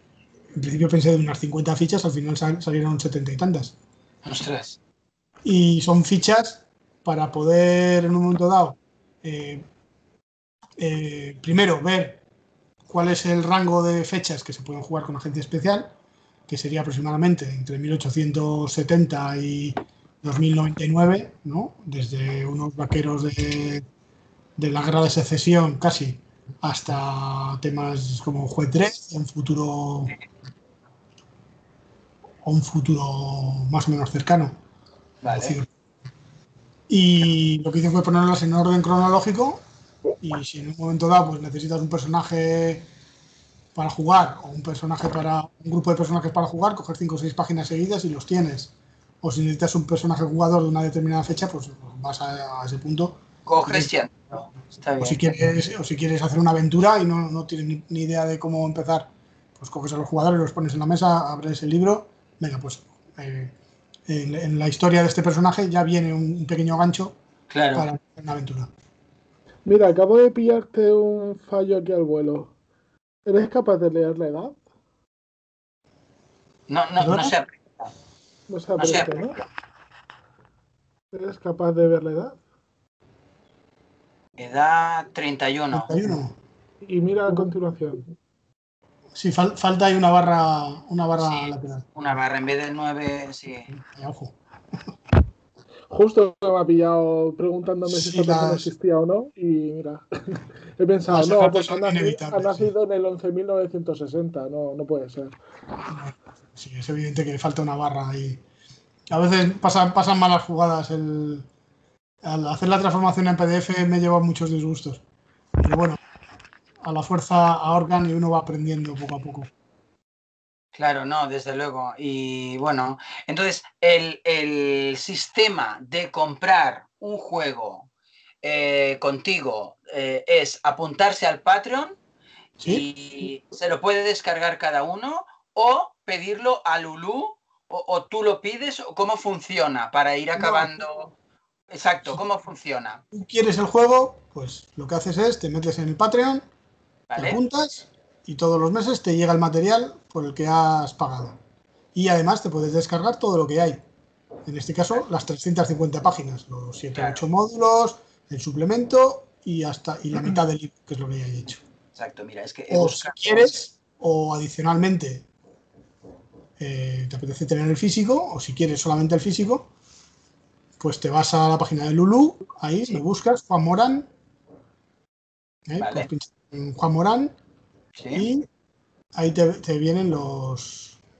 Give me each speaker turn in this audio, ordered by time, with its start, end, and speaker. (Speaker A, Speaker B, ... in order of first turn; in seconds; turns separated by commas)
Speaker A: 0.5-3.8, Speaker B: 4.2-4.8, Speaker A: 5.5-9.7, Speaker A: 10.8-12.2, Speaker A: 12.9-15.9, Speaker A: 16.5-23.9, Speaker A: 24.6-30.1, Speaker A: 32.4-34.6, Speaker B: 35.2-35.6, Speaker A: 35.2-35.7, Speaker A: 36.9-39.6, Speaker A: 40.2-42.9, Speaker A: 43.7-53.9, Speaker B: 53.5-55.4, Speaker A: 55.0-63.5, Speaker A: 64.1-67.2, Speaker B: 67.5-67.9, Speaker A: 67.8-68.7, Speaker C: 69.7-72.5, Speaker C: 73.2-74.6, Speaker B: 76.7-77.9, Speaker A: 77.0-77.3, Speaker C: 78.5-79.4, Speaker B: 78.8-79.4, Speaker C: 81.1-82.4, Speaker B: 84.4-85.9, Speaker A: 85.7-86.4, Speaker C: 86.8-88.1, Speaker A: 89.2-91.9, Speaker B: 91.2-93.7, Speaker A: 93.7-94.9, Speaker C: 95.9-105.4, Speaker A: 97.8-98.7, Speaker A: 101.1-102.7, Speaker A: 105.9-108.4, Speaker A: 109.1-111.5, Speaker A: 112.2-115.0, Speaker A: 115.6-116.0, Speaker A: 116.8-119.5, Speaker B: 120.8-127.9, Speaker B: 128.4-132.0, Speaker A: 132.6-132.8, Speaker B: 132.6-141.2, Speaker A: 140.4-140.8, Speaker B: 141.7-143.0, Speaker A: 143.1-146.4, Speaker B: 147.1-147.4, Speaker A: 147.2-151.4, Speaker A: 151.9-153.8, Speaker A: 154.5-161.6, Speaker B: 156.9-157.2, Speaker B: 161.9-163.6, Speaker A: 162.7-165.3, Speaker A: 166.6-169.7, Speaker A: 170.8-174.1, Speaker A: 175.7-177.4, Speaker B: 175.8-176.1, Speaker B: 178.0-178.3, Speaker A: 178.1-178.5, Speaker A: 179.2-181.0